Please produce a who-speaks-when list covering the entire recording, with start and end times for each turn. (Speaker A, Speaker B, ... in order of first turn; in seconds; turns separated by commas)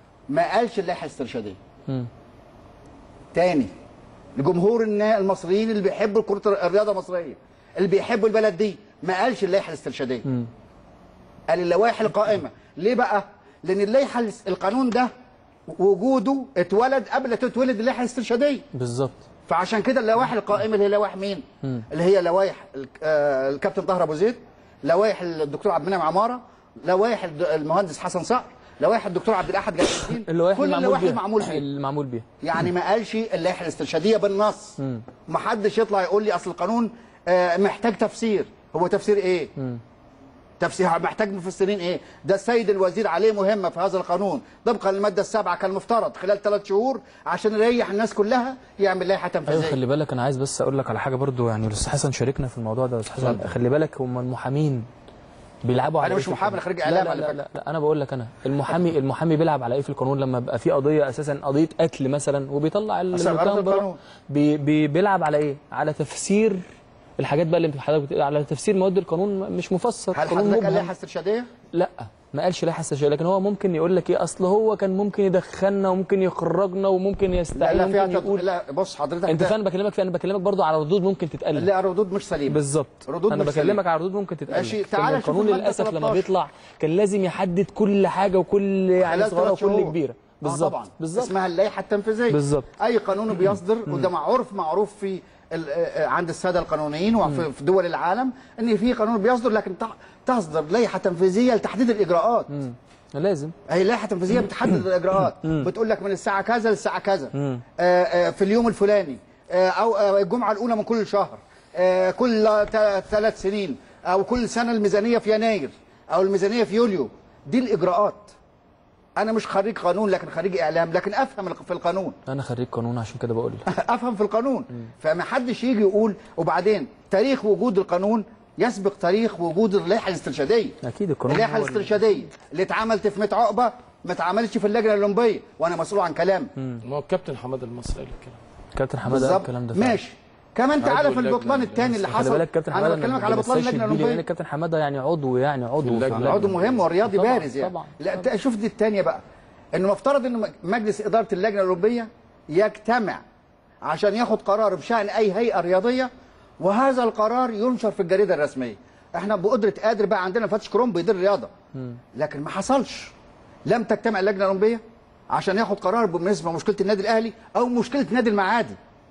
Speaker A: 0.3-1.6, Speaker A: 3.3-3.7, Speaker A: 4.4-10.2, Speaker A: 11.5-15.1, Speaker A: 15.7-18.6, Speaker B: 18.7-19.2, Speaker A: 19.5-31.6, Speaker B: 30.1-32.2, Speaker A: 32.4-34.8, Speaker A: 35.3-39.5, Speaker A: 40.6-49.8, Speaker B: 49.5-54.9, Speaker C: 53.2-53.5, Speaker B: 55.6-66.6, Speaker A: 56.0-57.4, Speaker A: 63.1-64.0, Speaker B: 67.2-70.9, Speaker A: 70.1-71.5, Speaker B: 71.7-78.4, Speaker A: 77.5-79.5, Speaker B: 79.2-81.7, Speaker A: 81.5-83.8, Speaker B: 82.5-91.3, Speaker A: 84.5-86.2, Speaker A: 89.0-102.5, Speaker B: 92.3-92.7, Speaker B: 102.5-103.5, Speaker A: 103.7-118.3, Speaker B: 105.4-105.7, Speaker B: 107.3-107.6, Speaker A: 119.2-122.2, Speaker B: 122.3-123.7, Speaker A: 123.7-130.8, Speaker B: 130.8-132.0, Speaker A: 131.3-136.5, Speaker B: 136.6-136.8, Speaker C: 136.8-138.4, Speaker B: 138.7-140.0, Speaker A: 139.1-144.2, Speaker C: 140.8-142.1, Speaker B: 142.1-148.0, Speaker C: 145.8-146.8, Speaker A: 146.1-149.2, Speaker A: 149.7-153.2, Speaker A: 153.8-161.5, Speaker A: 162.1-163.1, Speaker A: 163.7-168.8